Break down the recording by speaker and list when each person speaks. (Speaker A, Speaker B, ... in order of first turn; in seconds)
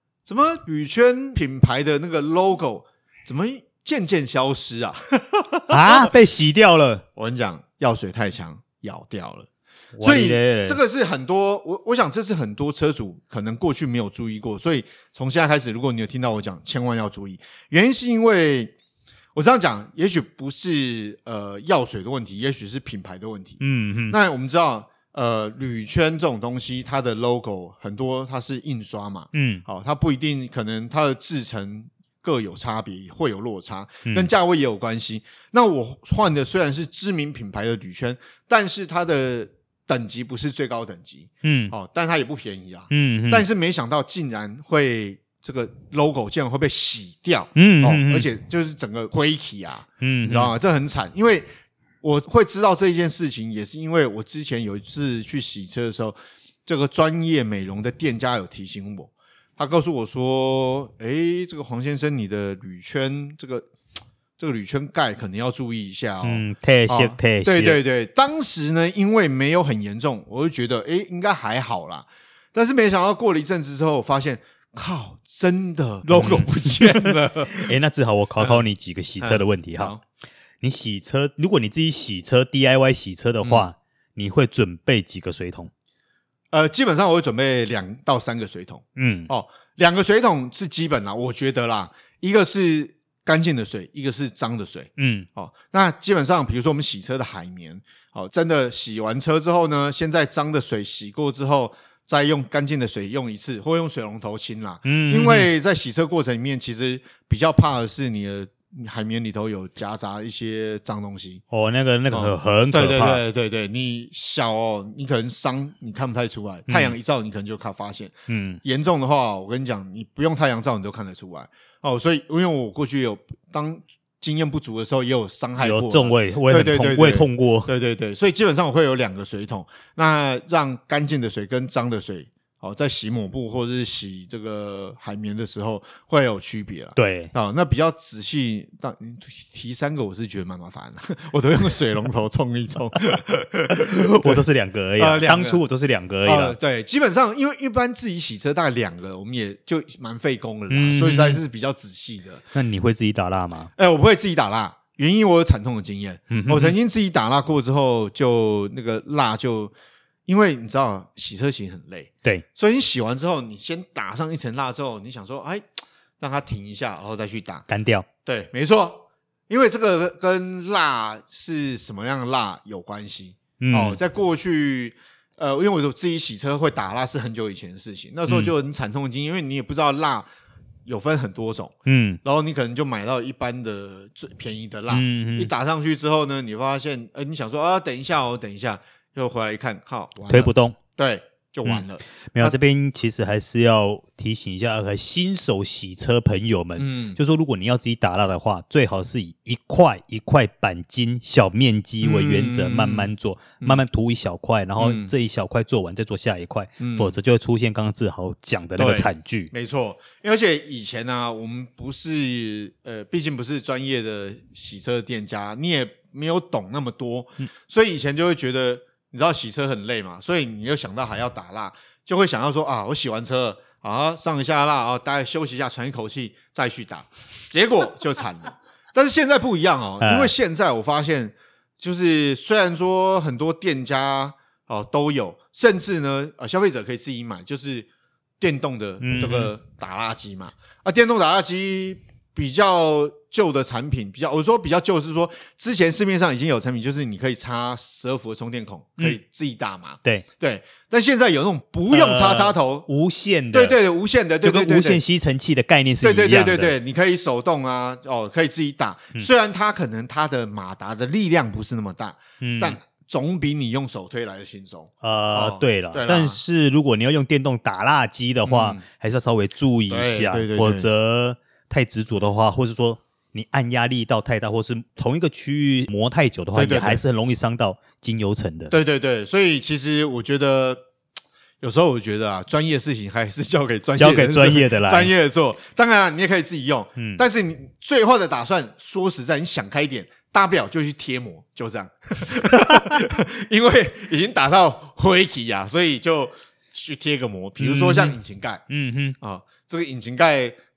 Speaker A: 0.2-6.1, 7.2-9.5, 10.0-18.7, 19.3-51.5, 52.0-63.7, 64.4-77.7, 79.2-80.0, 83.4-83.7, 86.5-111.4, 112.1-118.1, 118.6-144.4, 145.0-145.6, 146.2-152.4, 153.8-159.7, 160.3-165.6, 166.2-167.7, 168.2-180.3, 180.8-192.6, 196.8-197.2, 202.0-203.8, 204.8-205.1, 206.8-207.1, 208.8-237.9, 238.4-252.9, 253.5-255.0, 256.0-266.4, 268.4-268.8, 269.9-270.9, 276.5-277.0, 278.7-280.8, 281.6-298.6, 299.2-300.6
Speaker B: 5.7-7.0, 9.9-10.8, 23.6-24.1, 29.3-29.6, 41.4-41.7, 42.9-43.4, 47.5-48.3, 50.0-50.5, 66.2-67.8, 76.1-79.9, 80.6-85.7, 89.0-89.3, 95.0-95.3, 104.8-105.5, 111.5-113.2, 116.7-117.0, 118.3-118.6, 125.6-127.7, 136.9-137.3, 143.8-146.6, 150.7-151.4, 152.5-153.7, 156.3-156.7, 167.7-168.1, 173.6-174.0, 178.3-178.5, 181.8-182.2, 184.9-185.5, 190.3-190.8, 191.6-209.5, 230.0-230.3, 239.0-239.5, 251.9-253.8, 254.4-256.7, 262.4-262.8, 265.0-278.7, 283.9-285.1, 287.0-287.2, 297.6-298.2, 298.7-299.1